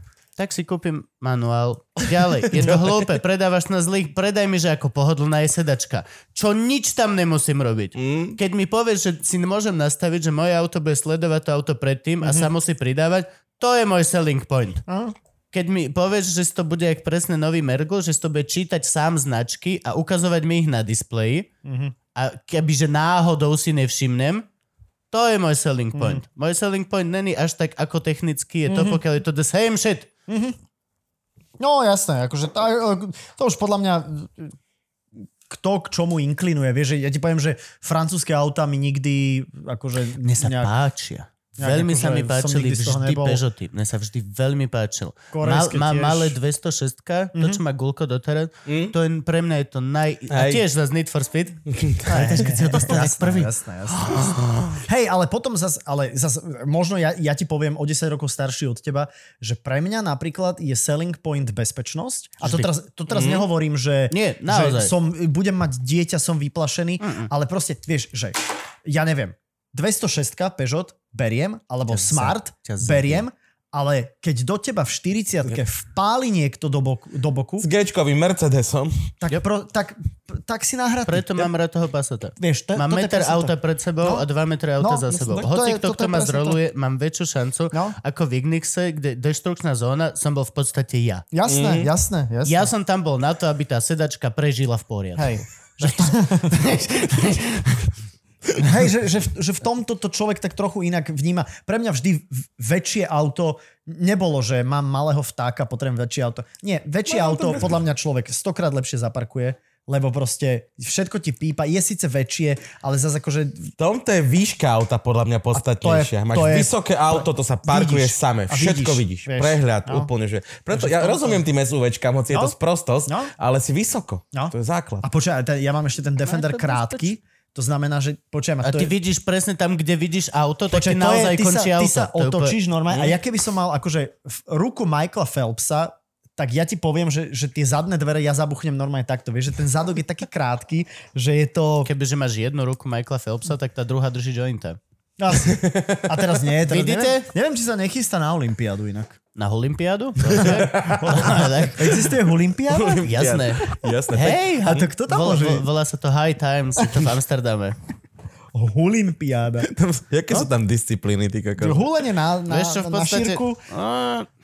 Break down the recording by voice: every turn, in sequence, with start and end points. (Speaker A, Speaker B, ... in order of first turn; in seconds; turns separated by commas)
Speaker A: 0.4-14.8, Speaker B: 8.0-8.4, Speaker C: 12.2-12.5, Speaker C: 14.9-15.2, Speaker A: 15.5-21.5, Speaker C: 21.6-21.9, Speaker A: 22.1-24.5, Speaker A: 25.1-30.1, Speaker C: 25.9-26.2, Speaker C: 28.7-29.0, Speaker C: 30.3-30.6, Speaker C: 31.6-34.5, Speaker C: 35.5-40.7, Speaker A: 40.2-54.6, Speaker C: 41.6-43.4, Speaker C: 45.3-46.4, Speaker C: 47.4-47.6, Speaker B: 48.7-48.9, Speaker B: 50.3-50.6, Speaker B: 51.7-52.4, Speaker C: 52.1-77.7, Speaker A: 62.4-62.7, Speaker B: 63.1-63.5, Speaker A: 64.1-64.9, Speaker A: 67.0-67.3, Speaker A: 71.9-73.2, Speaker B: 77.6-79.1, Speaker C: 79.2-81.5, Speaker A: 81.1-91.2, Speaker C: 82.4-84.3, Speaker C: 84.8-86.6, Speaker C: 91.3-92.7, Speaker B: 91.5-91.9, Speaker A: 92.5-97.9, Speaker C: 95.2-96.7, Speaker C: 98.6-113.7, Speaker B: 113.8-125.0, Speaker C: 115.5-120.1, Speaker C: 120.7-121.5, Speaker C: 123.1-123.3, Speaker C: 124.3-128.9, Speaker A: 126.2-127.1, Speaker A: 128.6-132.6, Speaker C: 130.7-141.9, Speaker A: 141.8-144.8, Speaker C: 145.2-149.2, Speaker B: 145.4-146.2, Speaker A: 146.7-147.3, Speaker A: 149.3-152.0, Speaker B: 150.3-152.1, Speaker C: 150.4-153.2, Speaker B: 152.7-154.8, Speaker A: 153.0-157.8, Speaker C: 154.7-155.7, Speaker C: 158.5-159.7, Speaker B: 159.6-161.9, Speaker C: 161.6-163.6, Speaker A: 162.5-164.3